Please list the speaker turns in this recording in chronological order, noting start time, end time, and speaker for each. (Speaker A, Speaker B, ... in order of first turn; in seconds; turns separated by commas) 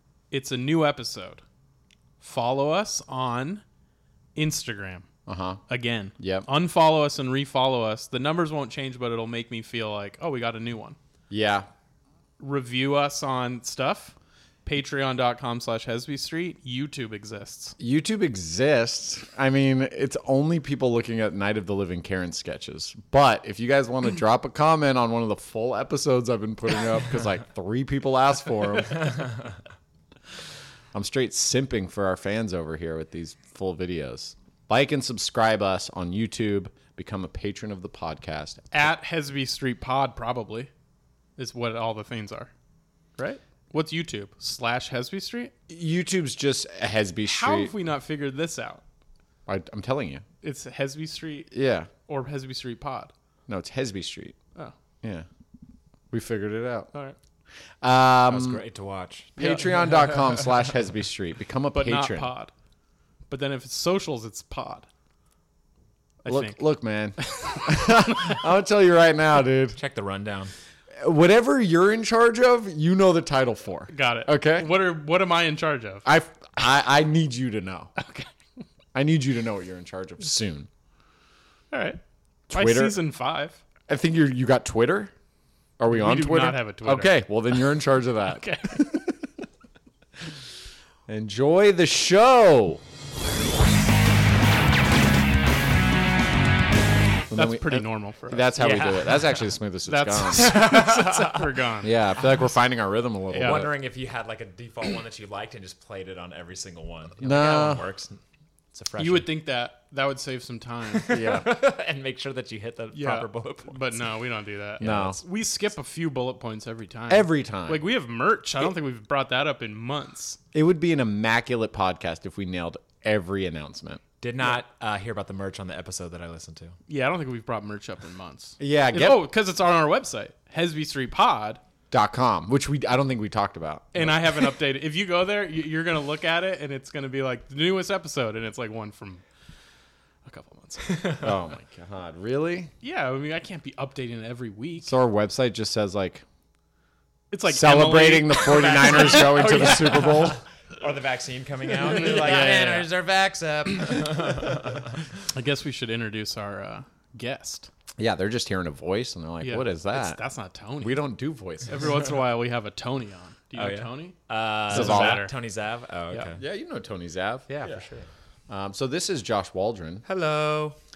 Speaker A: 0.3-1.4, Speaker A: 2.2-3.6, Speaker A: 4.3-5.1, Speaker B: 5.2-5.6, Speaker A: 5.7-11.0, Speaker B: 6.2-6.5, Speaker B: 11.3-11.7, Speaker A: 12.4-17.8, Speaker B: 17.8-29.3, Speaker B: 30.9-38.7, Speaker A: 38.7-40.7, Speaker A: 41.4-42.5, Speaker A: 43.2-45.5, Speaker B: 45.7-47.7, Speaker A: 47.2-48.8, Speaker B: 49.5-50.2, Speaker A: 50.4-51.5, Speaker B: 51.5-51.9, Speaker A: 52.0-53.1, Speaker B: 53.5-54.4, Speaker B: 56.1-56.9, Speaker B: 57.8-58.6, Speaker C: 58.3-59.4, Speaker A: 59.4-60.1, Speaker B: 59.4-62.3, Speaker A: 61.7-62.5, Speaker A: 63.3-64.9, Speaker A: 66.2-66.6, Speaker B: 66.3-69.8, Speaker A: 67.2-68.4, Speaker C: 69.8-70.5, Speaker B: 71.0-74.7, Speaker A: 73.9-76.0, Speaker B: 76.0-77.9, Speaker A: 78.0-78.3, Speaker B: 78.9-80.7, Speaker A: 81.7-82.0, Speaker B: 82.5-83.0, Speaker A: 82.5-83.6, Speaker B: 83.9-85.1, Speaker B: 85.8-89.2, Speaker A: 85.9-87.7, Speaker A: 88.2-88.8, Speaker B: 91.1-92.8, Speaker B: 97.3-100.5, Speaker A: 97.3-98.6, Speaker C: 98.6-99.5, Speaker A: 99.8-102.0, Speaker C: 100.3-101.7, Speaker B: 101.8-103.7, Speaker A: 103.3-103.7, Speaker C: 103.3-108.2, Speaker B: 107.2-107.8, Speaker C: 108.7-109.3, Speaker A: 109.0-111.2, Speaker C: 111.0-114.1, Speaker B: 111.1-111.5, Speaker A: 112.9-120.4, Speaker B: 114.8-115.2, Speaker B: 117.1-117.8, Speaker B: 120.5-124.0, Speaker C: 124.2-126.7, Speaker A: 126.9-131.6, Speaker B: 128.6-129.3, Speaker B: 131.9-134.3, Speaker A: 133.9-139.2, Speaker A: 140.2-141.2, Speaker C: 140.8-141.3, Speaker B: 141.2-142.7, Speaker A: 142.8-144.9, Speaker B: 144.8-146.2, Speaker A: 147.3-150.1, Speaker B: 147.5-150.4, Speaker C: 148.4-155.0, Speaker A: 151.7-152.9, Speaker A: 155.3-157.7, Speaker B: 158.0-160.2, Speaker A: 159.4-161.1, Speaker B: 160.8-161.9, Speaker A: 161.7-164.1, Speaker C: 163.6-166.4, Speaker B: 164.7-165.2, Speaker A: 164.7-165.3, Speaker B: 166.4-167.8, Speaker C: 167.5-168.1, Speaker B: 168.5-170.0, Speaker C: 170.1-170.8